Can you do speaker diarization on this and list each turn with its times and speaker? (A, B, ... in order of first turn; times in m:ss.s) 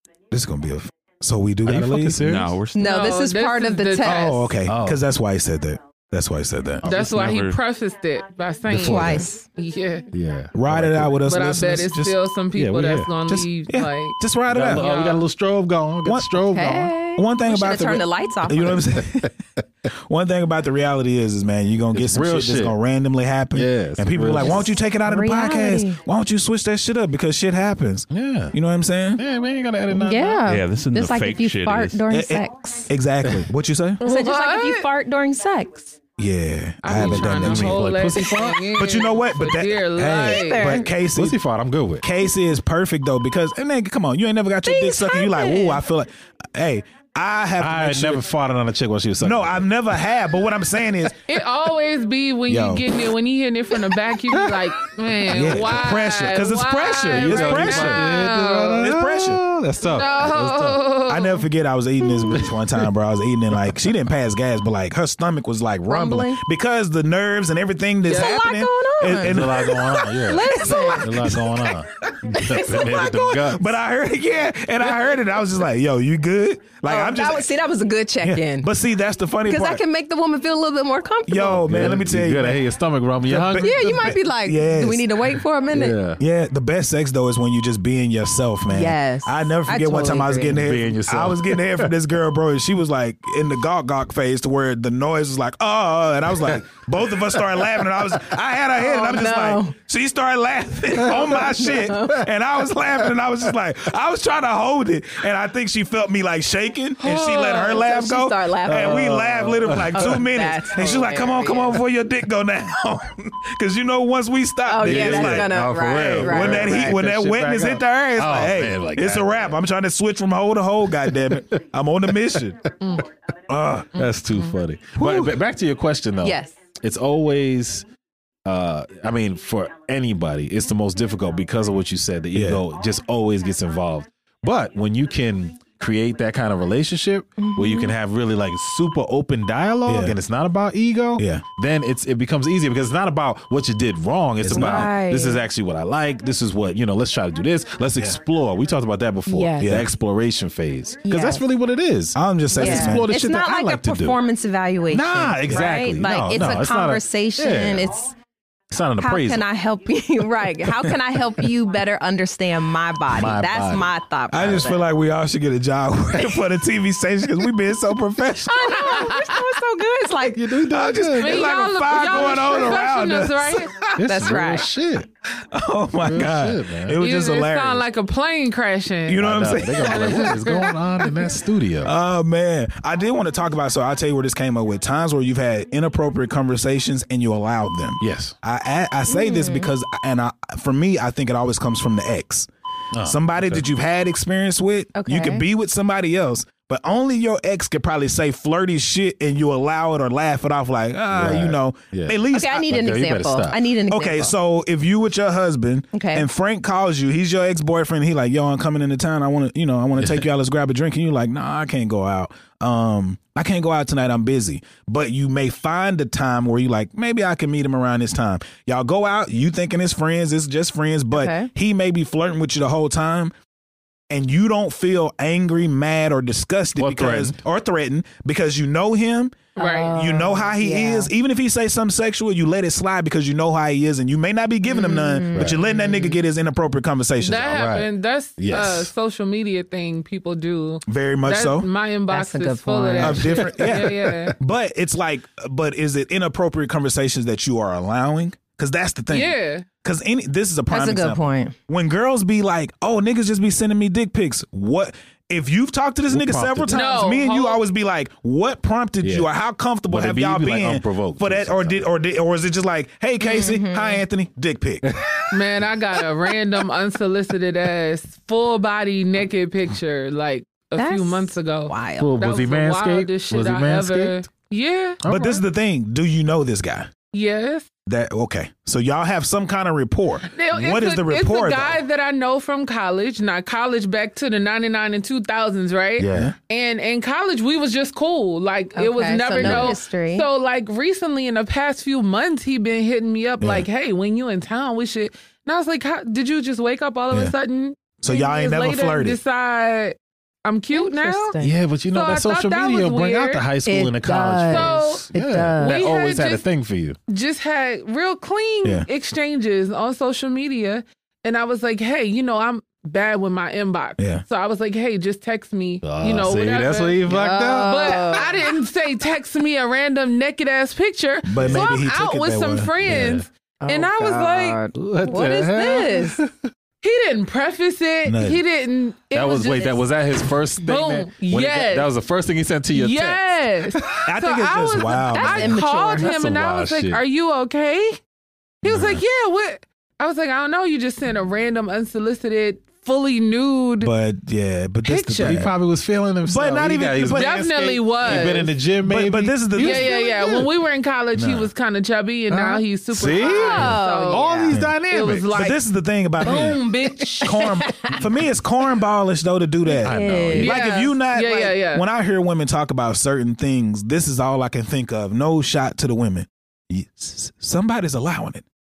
0:00.3-0:02.2 A
0:01.6-0:02.6 B
0:02.2-0:03.0 C
0:02.7-0:04.5 D
0:02.8-0:04.4 E
0:04.0-0:06.8 A
0:04.7-0:05.0 B
0:06.8-0:07.1 B
0:06.8-0:10.1 E
0:06.8-0:07.6 C
0:08.7-0:09.2 B
0:08.7-0:09.2 A
0:08.8-0:09.4 D
0:10.1-0:11.2 B
0:10.5-0:12.2 A
0:11.3-0:14.2 E
0:12.5-0:13.1 B
0:13.3-0:14.9 A
0:14.5-0:16.9 B
0:14.7-0:15.2 E
0:16.0-0:16.3 A
0:16.5-0:18.8 D
0:17.2-0:19.3 A
0:19.9-0:29.2 A
0:21.9-0:22.7 B
0:23.5-0:24.7 B
0:24.4-0:26.0 D
0:28.1-0:28.6 B
0:29.2-0:30.4 B
0:29.9-0:32.9 D
0:30.4-0:32.0 C
0:32.1-0:34.0 A
0:34.0-0:34.8 E
0:34.0-0:36.0 D
0:36.2-0:37.9 A
0:36.8-0:40.7 E
0:36.9-0:38.8 B
0:38.7-0:41.4 A
0:40.1-0:40.9 D
0:41.1-0:42.0 B
0:42.0-0:48.2 A
0:44.6-0:45.8 D
0:47.6-0:49.7 B
0:49.2-0:51.2 A
0:51.2-0:58.9 E
0:52.5-0:52.8 A
0:54.3-0:54.6 B
0:55.3-0:55.6 B
0:55.3-0:58.1 A
0:57.1-1:00.8 B
0:58.8-0:59.4 A
0:59.8-1:01.4 E
1:01.0-1:17.5 A
1:05.9-1:06.4 D
1:08.0-1:11.1 D
1:09.2-1:13.6 B
1:12.5-1:12.8 D
1:16.8-1:18.7 D
1:18.2-1:19.8 A
1:19.4-1:21.7 D
1:21.3-1:22.6 A
1:21.6-1:24.1 B
1:23.2-1:25.1 A
1:23.6-1:26.0 D
1:25.7-1:26.2 B
1:26.2-2:02.7 A
1:28.7-1:30.6 D
1:30.5-1:31.9 B
1:38.8-1:39.7 D
1:41.1-1:41.6 B
1:41.3-1:42.2 D
1:47.0-1:47.8 E
1:47.0-1:51.8 D
1:48.7-1:50.2 B
1:54.6-1:57.0 D
1:54.8-1:59.6 B
2:01.0-2:01.4 B
2:03.5-2:03.9 A
2:04.0-2:07.8 B
2:04.9-2:05.4 A
2:06.2-2:06.6 D
2:08.4-2:34.2 B
2:12.3-2:12.6 A
2:17.4-2:17.9 D
2:19.8-2:20.2 A
2:21.2-2:21.4 A
2:24.4-2:24.9 A
2:24.5-2:25.4 D
2:29.3-2:29.7 D
2:29.6-2:29.9 A
2:31.0-2:31.4 D
2:32.1-2:33.1 A
2:32.6-2:38.1 D
2:34.9-2:37.9 B
2:35.4-2:35.7 A
2:38.7-2:39.4 B
2:39.0-2:44.8 D
2:43.1-2:43.9 B
2:44.3-2:49.1 A
2:48.5-2:50.5 D
2:48.8-2:49.3 E
2:50.3-2:51.5 B
2:50.6-2:53.9 A
2:51.2-2:53.7 E
2:54.0-2:55.1 B
2:54.0-2:54.7 D
2:55.5-2:57.8 A
2:56.0-2:57.0 B
2:57.0-3:01.1 E
2:59.0-3:00.6 A
2:59.2-3:01.9 B
3:01.8-3:12.5 A
3:08.0-3:08.3 B
3:09.1-3:09.7 D
3:12.9-3:13.6 B
3:13.0-3:22.6 A
3:14.9-3:15.4 D
3:21.1-3:23.7 B
3:22.3-3:24.3 D
3:23.9-3:43.3 A
3:25.9-3:26.3 D
3:30.0-3:30.2 B
3:41.1-3:41.5 D
3:44.1-3:57.7 A
3:46.8-3:47.4 B
3:49.6-3:50.0 E
3:49.6-3:51.1 D
3:54.6-3:56.1 D
3:57.2-4:04.3 E
3:57.5-3:58.9 B
4:00.8-4:01.7 A
4:02.1-4:03.4 D
4:03.0-4:25.0 A
4:03.6-4:04.3 B
4:09.1-4:09.6 E
4:10.7-4:11.6 D
4:16.1-4:16.9 B
4:16.7-4:17.6 E
4:19.0-4:19.3 B
4:19.9-4:21.8 B
4:23.2-4:24.0 D
4:24.8-4:25.3 B
4:25.3-4:35.1 E
4:30.8-4:32.1 D
4:32.0-4:34.2 B
4:35.0-4:35.4 B
4:35.0-4:36.9 A
4:37.1-4:37.7 E
4:37.8-4:41.8 A
4:40.3-5:01.4 E
4:46.0-4:46.3 B
4:46.1-4:46.3 A
4:48.8-4:50.3 D
4:49.4-4:49.7 B
4:53.4-4:53.7 A
4:58.0-4:59.2 A
5:00.7-5:01.5 D
5:01.4-5:07.0 B
5:01.9-5:03.4 E
5:03.6-5:05.9 D
5:04.5-5:05.1 E
5:05.6-5:06.4 E
5:07.1-5:24.6 E
5:14.0-5:14.2 A
5:15.8-5:18.2 B
5:17.1-5:18.3 D
5:21.2-5:23.0 A
5:21.4-5:21.7 B
5:22.8-5:23.2 B
5:23.6-5:26.2 D
5:24.7-5:26.4 B
5:26.8-5:29.8 E
5:28.0-5:28.4 A
5:29.1-5:34.0 B
5:30.6-5:31.9 E
5:32.7-5:38.0 E
5:34.0-5:35.6 A
5:35.1-5:36.1 D
5:36.0-5:37.0 B
5:38.6-5:43.9 E
5:38.6-5:39.0 A
5:43.8-5:45.5 A
5:44.8-5:45.5 E
5:45.2-5:50.4 B
5:46.2-5:47.3 A
5:47.1-5:48.5 E
5:48.0-5:50.0 A
5:49.6-5:55.6 E
5:51.1-5:51.5 A
5:52.3-5:55.3 B
5:53.2-5:54.6 D
5:55.3-5:56.6 A
5:56.2-5:58.0 E
5:57.1-5:57.9 D
5:57.2-6:08.4 A
5:59.7-6:00.6 D
5:59.8-6:00.5 B
6:00.3-6:01.8 E